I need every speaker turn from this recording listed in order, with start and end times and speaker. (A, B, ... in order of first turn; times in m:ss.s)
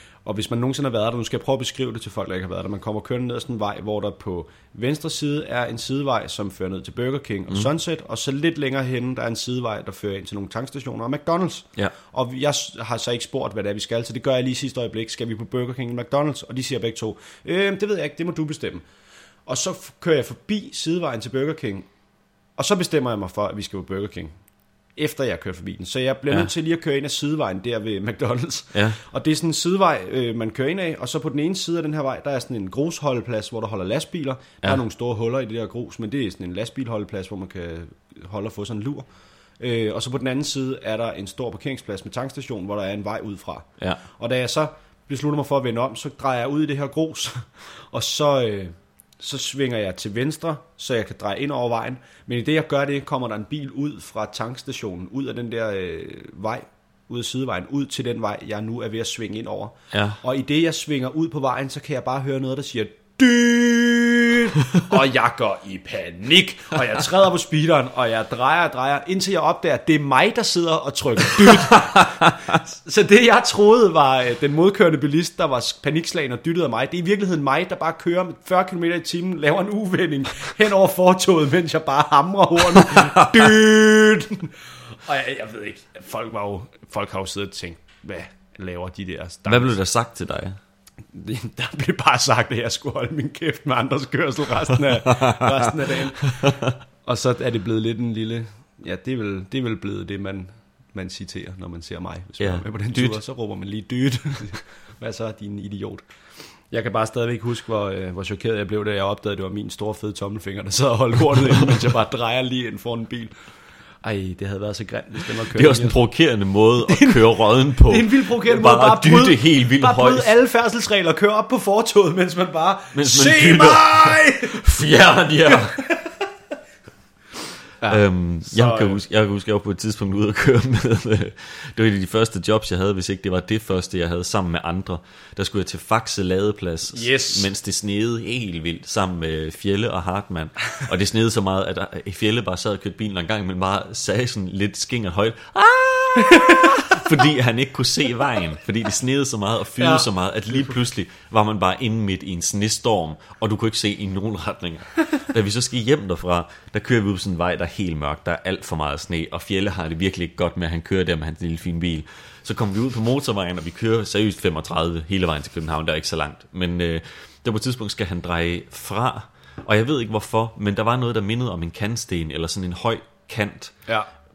0:00.2-0:18.8 A
0:19.5-0:21.9 A
0:22.6-0:24.3 A
0:25.0-0:39.1 A
0:28.7-0:29.0 B
0:39.6-1:24.5 A
0:59.9-1:00.2 B
1:22.8-1:23.4 B
1:25.1-1:29.8 A
1:29.5-1:30.6 B
1:31.1-1:46.0 A
1:35.1-1:35.7 B
1:36.4-1:36.7 B
1:42.4-1:43.2 B
1:46.7-1:53.3 A
1:54.0-1:56.0 A
1:55.3-2:00.3 B
1:56.9-2:04.8 A
2:02.9-2:05.8 B
2:05.4-2:06.2 A
2:07.8-2:09.0 A
2:07.9-2:53.8 B
2:16.9-2:17.5 A
2:26.3-2:26.9 A
2:29.8-2:30.1 A